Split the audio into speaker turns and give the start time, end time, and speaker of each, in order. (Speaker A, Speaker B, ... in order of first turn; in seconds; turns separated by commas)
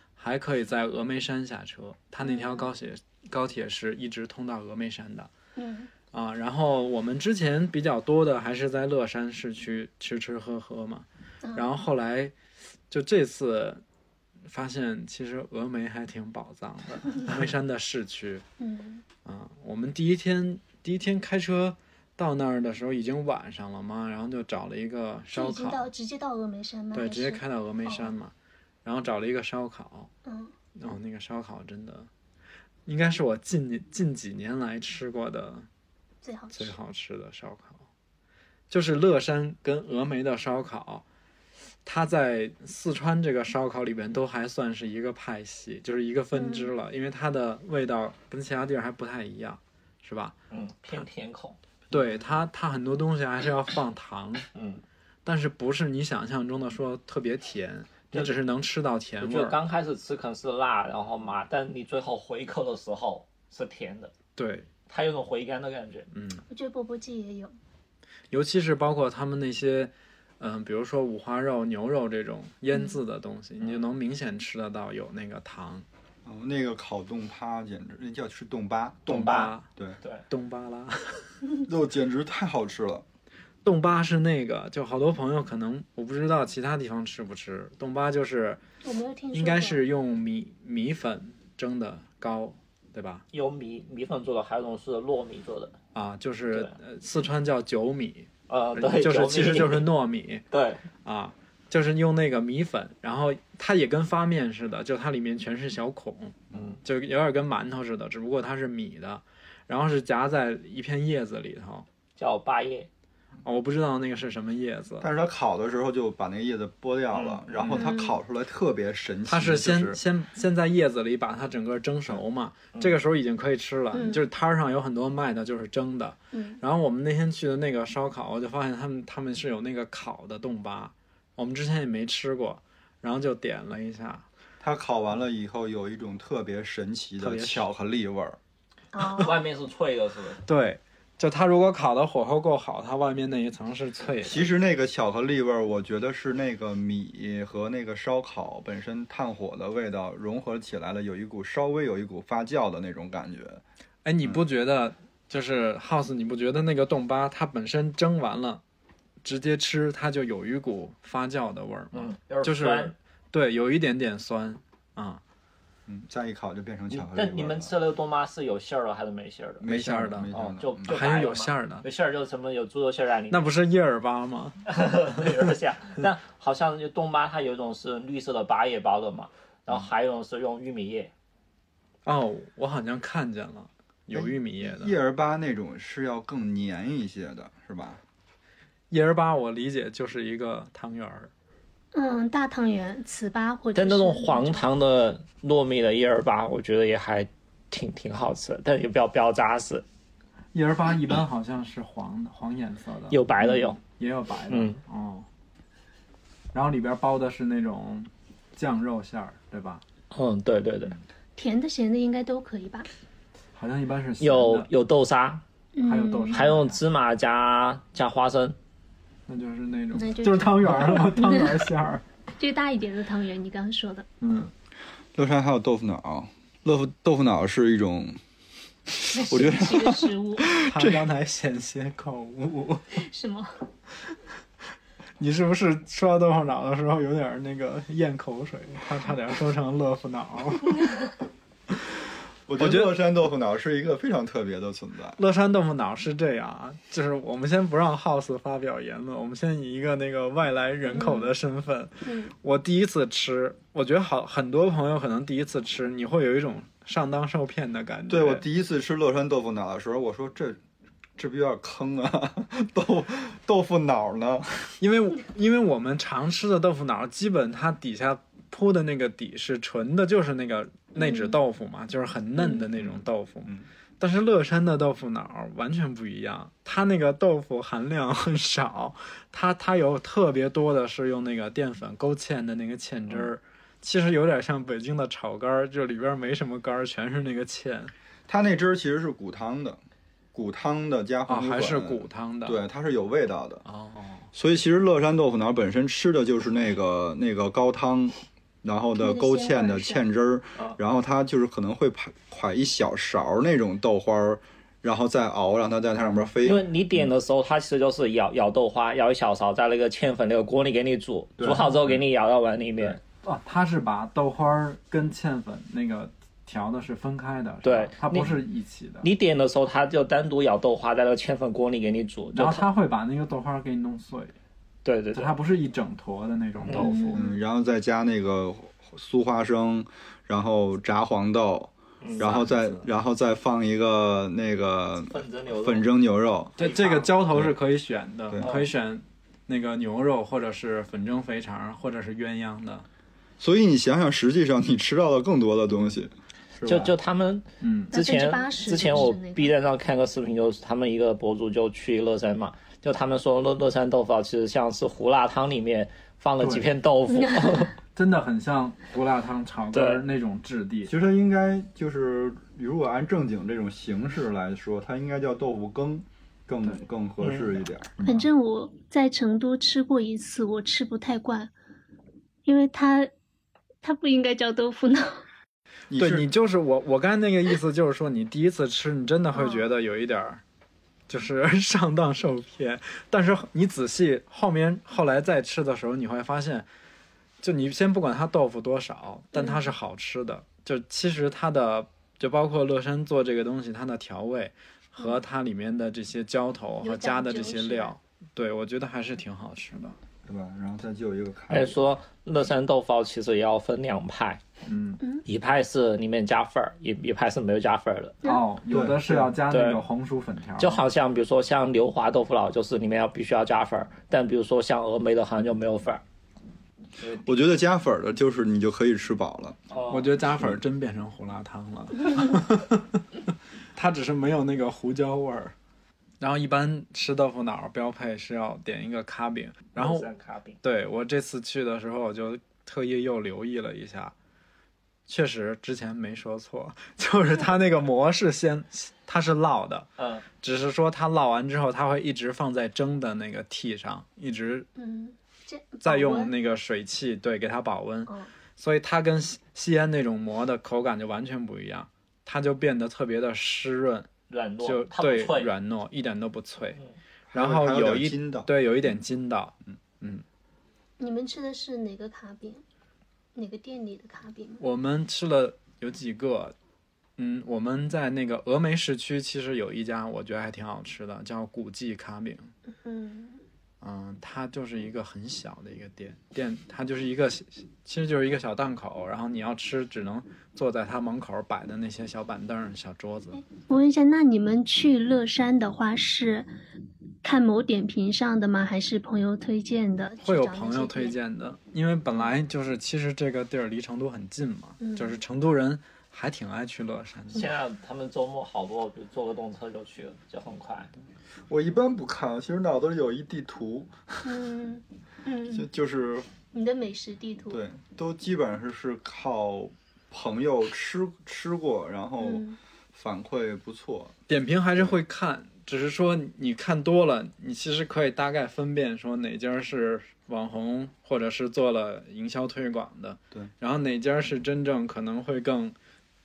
Speaker A: 0.2-5.3, Speaker B: 2.2-2.7, Speaker B: 5.5-5.9, Speaker A: 6.1-12.3, Speaker A: 12.9-13.8, Speaker A: 14.5-18.4, Speaker B: 18.6-19.0, Speaker A: 19.2-25.9, Speaker B: 25.3-28.1, Speaker A: 26.9-28.3, Speaker A: 28.8-30.1, Speaker B: 30.2-30.5, Speaker A: 30.7-32.1, Speaker A: 32.9-35.7, Speaker B: 36.2-36.8, Speaker A: 36.5-37.8, Speaker A: 38.7-41.0, Speaker A: 41.8-50.4, Speaker B: 46.3-46.7, Speaker C: 50.5-51.6, Speaker A: 51.9-54.5, Speaker C: 54.5-54.8, Speaker A: 55.2-59.6, Speaker C: 59.2-64.1, Speaker A: 64.3-64.7, Speaker C: 64.9-66.1, Speaker A: 66.1-66.4, Speaker B: 66.5-67.5, Speaker A: 68.3-75.8, Speaker C: 73.6-73.9, Speaker D: 76.2-80.0, Speaker A: 79.1-79.7, Speaker C: 79.2-80.2, Speaker A: 80.3-81.3, Speaker D: 81.7-83.0, Speaker A: 83.6-88.6, Speaker B: 88.8-89.8, Speaker A: 89.3-93.2, Speaker C: 93.3-95.7, Speaker A: 95.9-100.4, Speaker C: 98.5-99.9, Speaker C: 100.5-100.8, Speaker A: 101.0-111.8, Speaker C: 106.5-106.8, Speaker C: 112.2-112.9, Speaker A: 113.4-115.1, Speaker D: 115.0-120.0, Speaker C: 117.1-117.7, Speaker B: 117.7-118.2, Speaker A: 119.3-134.2, Speaker B: 123.9-124.2, Speaker B: 126.3-126.6, Speaker D: 134.6-138.4, Speaker A: 137.2-137.6, Speaker B: 138.9-139.4, Speaker C: 139.2-140.4, Speaker A: 140.4-144.5, Speaker D: 144.2-153.6, Speaker A: 154.0-158.6, Speaker A: 159.2-165.2, Speaker C: 161.9-162.9, Speaker D: 165.9-167.8, Speaker C: 166.9-169.7, Speaker D: 169.6-171.0, Speaker A: 169.6-170.3, Speaker C: 170.3-173.4, Speaker A: 170.8-171.8, Speaker A: 173.3-174.6, Speaker C: 174.7-181.1, Speaker A: 182.0-184.9, Speaker D: 184.1-188.0, Speaker A: 188.9-191.3, Speaker B: 191.9-194.6, Speaker C: 193.7-199.8, Speaker A: 200.5-205.2, Speaker C: 203.1-203.8, Speaker C: 204.5-204.8, Speaker A: 206.5-209.8, Speaker C: 210.1-210.9, Speaker B: 211.4-212.9, Speaker A: 213.5-214.7, Speaker C: 214.2-215.4, Speaker B: 215.7-216.5, Speaker A: 215.8-216.8, Speaker C: 216.3-218.6, Speaker A: 219.3-222.0, Speaker B: 219.9-221.6, Speaker B: 222.4-224.1, Speaker A: 224.2-224.5, Speaker D: 225.1-228.2, Speaker D: 228.9-231.1, Speaker B: 229.1-230.5, Speaker A: 230.6-232.8, Speaker B: 232.9-233.5, Speaker A: 235.2-241.0, Speaker D: 242.5-245.2, Speaker A: 242.6-242.9, Speaker A: 245.2-258.4, Speaker B: 250.9-251.3, Speaker B: 252.0-252.3, Speaker D: 258.1-260.6, Speaker D: 261.2-264.7, Speaker A: 264.8-287.9, Speaker B: 270.9-271.4, Speaker B: 272.4-272.7, Speaker D: 272.8-273.6, Speaker D: 288.3-289.8, Speaker D: 290.3-293.6, Speaker A: 291.3-292.6, Speaker A: 293.6-294.3, Speaker D: 294.3-307.1, Speaker B: 299.0-300.1, Speaker C: 306.4-313.0, Speaker D: 311.4-312.0, Speaker A: 313.2-319.1, Speaker C: 317.6-318.4, Speaker C: 319.0-322.7, Speaker A: 322.3-324.3, Speaker C: 324.8-325.3, Speaker A: 325.1-327.2, Speaker C: 326.6-326.9, Speaker B: 326.7-327.4, Speaker D: 327.1-336.6, Speaker C: 332.0-332.4, Speaker A: 332.2-332.9, Speaker C: 335.1-335.9, Speaker A: 336.6-342.9, Speaker C: 336.6-337.1, Speaker D: 338.3-338.5, Speaker C: 338.4-338.7, Speaker D: 343.4-346.9, Speaker C: 346.6-357.7, Speaker A: 347.6-347.9, Speaker B: 347.9-349.5, Speaker A: 356.4-356.7, Speaker B: 357.1-357.7, Speaker A: 357.9-360.9, Speaker C: 359.7-360.0, Speaker D: 360.9-368.3, Speaker C: 367.2-367.5, Speaker B: 368.0-371.5, Speaker B: 372.4-373.1, Speaker B: 373.8-375.2, Speaker D: 375.9-376.3, Speaker A: 375.9-380.4, Speaker B: 379.3-379.6, Speaker A: 381.1-386.7, Speaker A: 387.4-400.0, Speaker B: 389.3-389.7, Speaker B: 396.8-397.9, Speaker D: 400.2-401.8, Speaker C: 401.5-404.4, Speaker A: 404.6-405.0, Speaker C: 405.2-408.2, Speaker A: 408.2-410.8, Speaker D: 408.7-409.3, Speaker C: 409.5-409.8, Speaker C: 410.6-416.0, Speaker C: 417.0-417.2, Speaker D: 417.2-419.6, Speaker C: 419.7-420.1, Speaker A: 419.9-423.0, Speaker D: 420.3-420.6, Speaker A: 423.7-425.5, Speaker A: 426.2-430.1, Speaker C: 429.8-430.6, Speaker A: 430.6-434.1, Speaker A: 435.1-444.7, Speaker C: 440.0-440.3, Speaker B: 444.8-446.3, Speaker A: 445.8-454.1, Speaker C: 454.3-455.5, Speaker A: 454.6-456.8, Speaker D: 457.3-458.5, Speaker A: 457.3-460.2, Speaker B: 461.0-462.6, Speaker B: 463.3-464.6, Speaker A: 464.6-466.5, Speaker A: 467.2-472.5, Speaker B: 472.7-473.4, Speaker A: 473.8-483.4, Speaker B: 483.3-486.5, Speaker B: 487.2-491.2, Speaker A: 490.2-497.5, Speaker B: 494.8-495.2, Speaker C: 497.3-500.9, Speaker D: 501.5-504.3, Speaker B: 504.2-505.7, Speaker D: 505.5-506.3, Speaker B: 506.5-507.6, Speaker D: 507.5-514.1, Speaker B: 512.2-512.6, Speaker A: 514.3-525.7